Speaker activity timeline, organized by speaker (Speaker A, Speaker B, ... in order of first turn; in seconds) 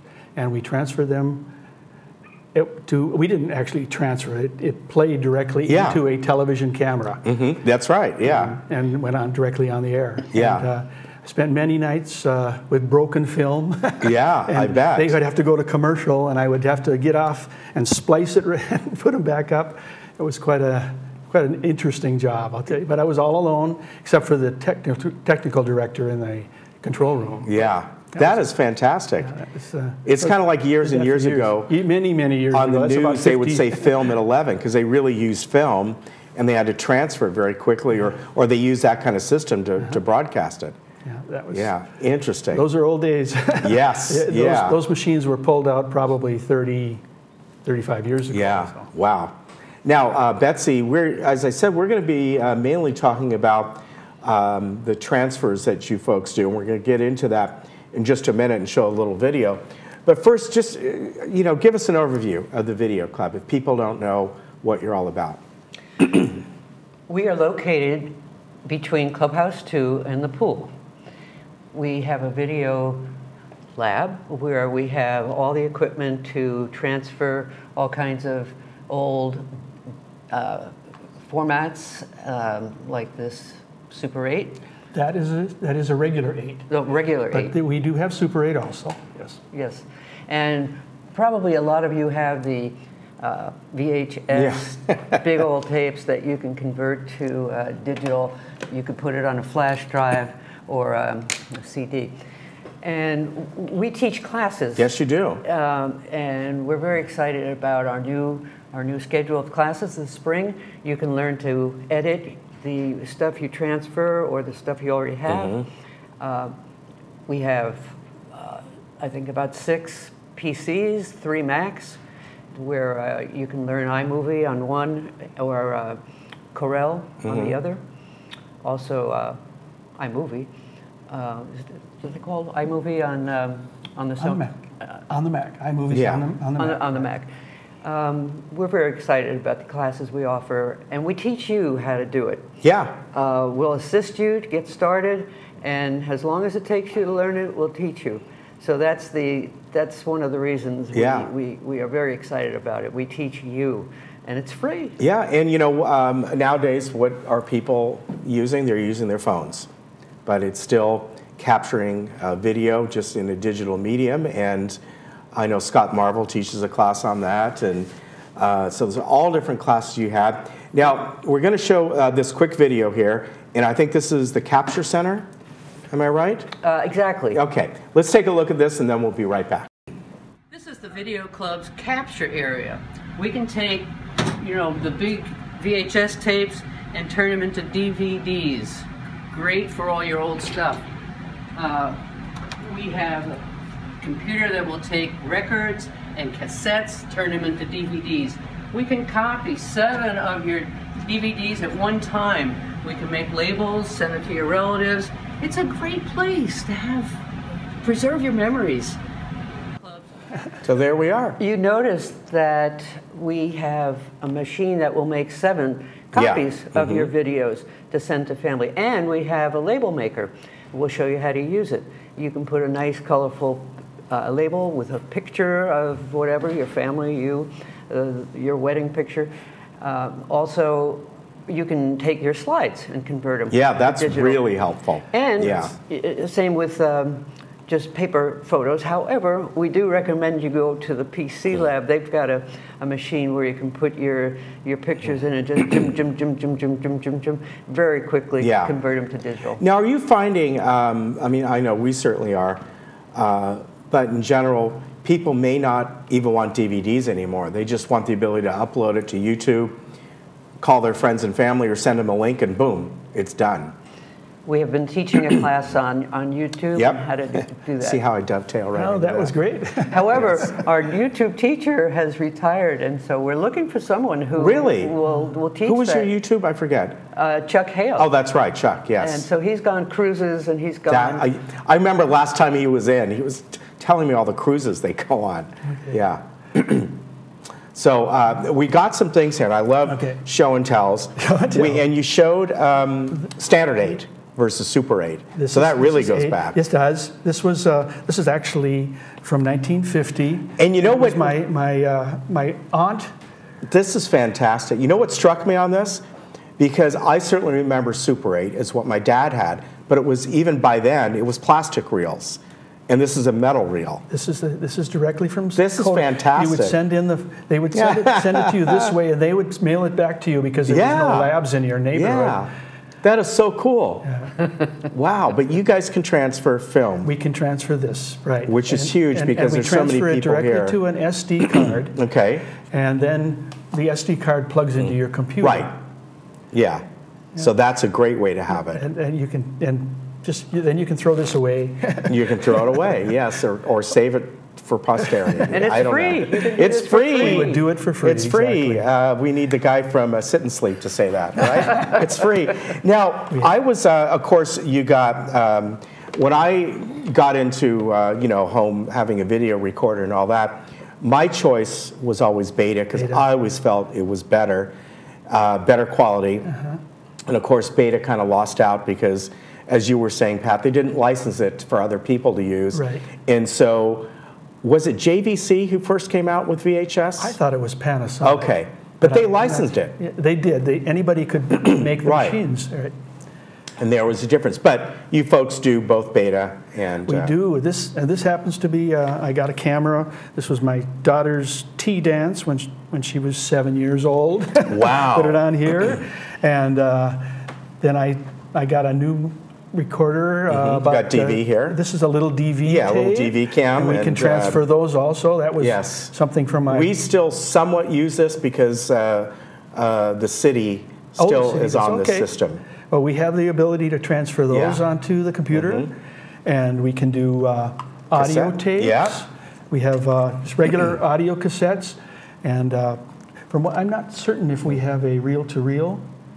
Speaker A: 0.3-1.5, 2.5-7.2, 8.2-27.6, 28.1-28.4, 29.2-33.9, 41.0-41.7, 42.5-47.0, 47.6-48.9, 84.9-86.7, 87.3-89.4, 134.2-134.6, 135.1-137.1, 268.7-270.1, 289.9-290.2, 291.2-291.8, 295.3-303.1, 314.1-322.4, 324.0-324.3, 327.0-331.9, 332.7-335.7, 338.5-342.7, 346.9-348.9, 362.9-363.3, 366.5-366.8, 372.7-373.1, 377.2-378.5, 379.0-382.9, 387.1-406.9, 411.2-412.3, 412.9-415.9, 416.4-426.0
Speaker B: 5.7-6.0, 7.2-8.6, 10.3-10.7, 14.0-15.2, 27.4-29.3, 30.0-31.7, 32.5-40.7, 41.5-42.6, 43.6-44.8, 48.3-65.4, 94.3-95.2, 104.8-105.4, 115.3-115.7, 127.2-127.6, 135.9-136.2, 142.6-143.0, 150.9-151.3, 155.0-159.7, 160.2-164.8, 165.3-175.3, 175.9-176.5, 177.3-179.7, 210.6-211.4, 216.1-217.1, 233.5-235.7, 248.4-248.7, 249.6-252.6, 253.1-259.8, 260.6-263.7, 266.7-267.0, 267.8-269.3, 274.4-275.0, 275.6-277.0, 278.0-279.2, 280.9-287.0, 287.7-296.6, 300.6-301.4, 303.6-306.0, 306.6-314.0, 315.6-316.8, 317.7-318.9, 320.7-321.3, 321.9-322.5, 323.0-324.1, 324.8-327.1, 328.4-330.8, 331.6-332.5, 335.4-335.7, 336.5-336.8, 337.4-338.8, 342.1-364.7, 365.3-366.5, 367.3-374.1, 374.6-377.4, 378.2-379.9, 381.9-382.4, 383.8-387.3, 394.7-395.4, 400.5-401.8, 402.6-404.6, 405.6-406.1, 406.7-412.6, 414.5-414.8, 415.5-415.9, 418.1-419.2
Speaker C: 67.1-70.7, 71.7-73.1, 73.7-79.5, 80.3-80.7, 81.3-84.6, 86.7-87.5, 89.5-102.1, 102.8-115.6, 116.2-116.5, 117.3-122.0, 122.5-126.0, 126.5-127.8, 128.6-129.4, 130.0-130.5, 131.1-135.0, 136.6-137.3, 137.8-142.5, 143.1-155.0, 176.6-177.4, 180.5-190.8, 191.5-192.0, 192.6-193.4, 194.0-207.2, 207.8-209.0, 209.8-210.1, 211.4-234.4, 235.1-249.6, 264.4-268.0, 269.8-276.1, 277.1-278.1, 279.0-281.3, 345.5-347.6